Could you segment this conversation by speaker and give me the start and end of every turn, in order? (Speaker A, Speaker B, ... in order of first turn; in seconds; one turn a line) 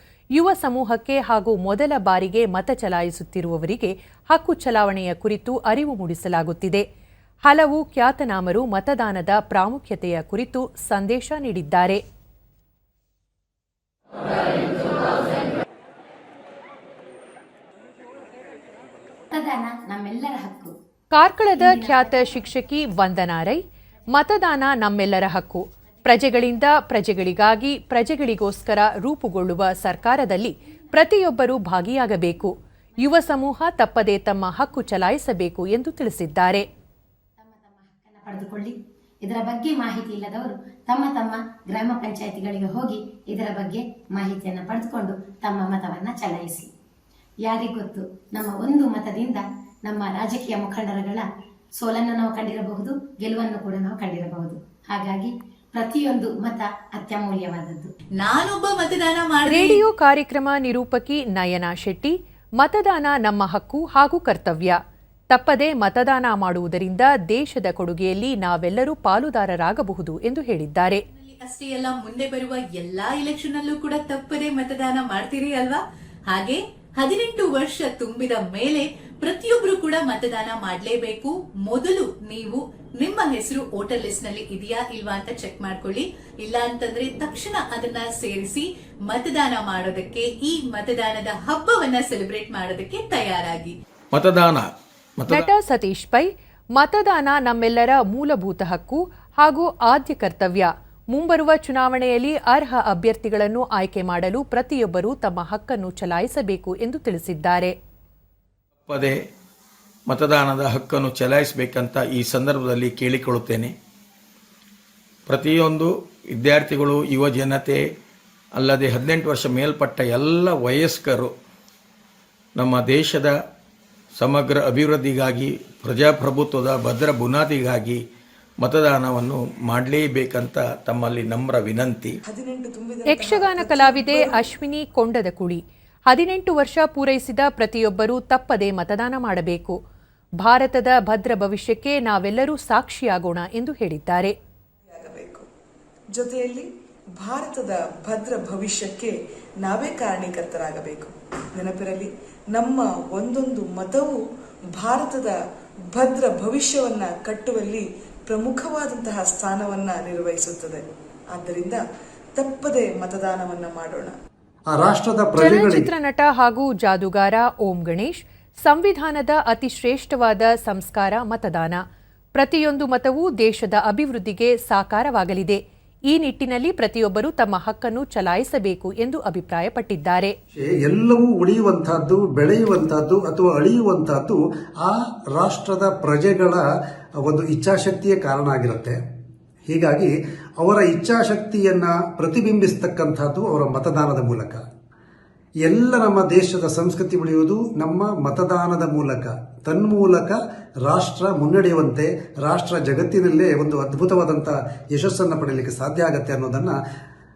Speaker A: 0.3-6.8
Speaker A: 7.4-12.0
Speaker B: 19.3-20.7
Speaker A: 21.1-23.6
Speaker B: 21.6-22.2
Speaker A: 24.1-36.6
Speaker B: 37.4-46.7
Speaker B: 47.4-51.2
Speaker B: 51.8-57.9
Speaker C: 58.2-59.8
Speaker A: 59.5-64.8
Speaker A: 65.3-71.0
Speaker C: 71.1-93.8
Speaker D: 94.1-94.7
Speaker D: 95.2-95.5
Speaker A: 95.3-107.7
Speaker D: 108.8-109.2
Speaker D: 110.1-113.7
Speaker D: 115.3-117.8
Speaker D: 118.5-121.3
Speaker D: 122.5-123.3
Speaker D: 124.2-128.0
Speaker D: 128.6-132.2
Speaker E: 132.3-134.4
Speaker A: 133.1-139.8
Speaker A: 140.4-144.3
Speaker E: 144.9-145.5
Speaker E: 146.2-146.7
Speaker E: 147.2-154.2
Speaker E: 154.8-155.4
Speaker E: 155.9-160.8
Speaker E: 161.3-161.8
Speaker E: 162.3-164.1
Speaker F: 164.7-165.9
Speaker A: 165.4-171.8
Speaker A: 172.3-180.3
Speaker F: 180.5-186.6
Speaker F: 187.2-189.0
Speaker F: 189.7-194.6
Speaker F: 195.6-206.8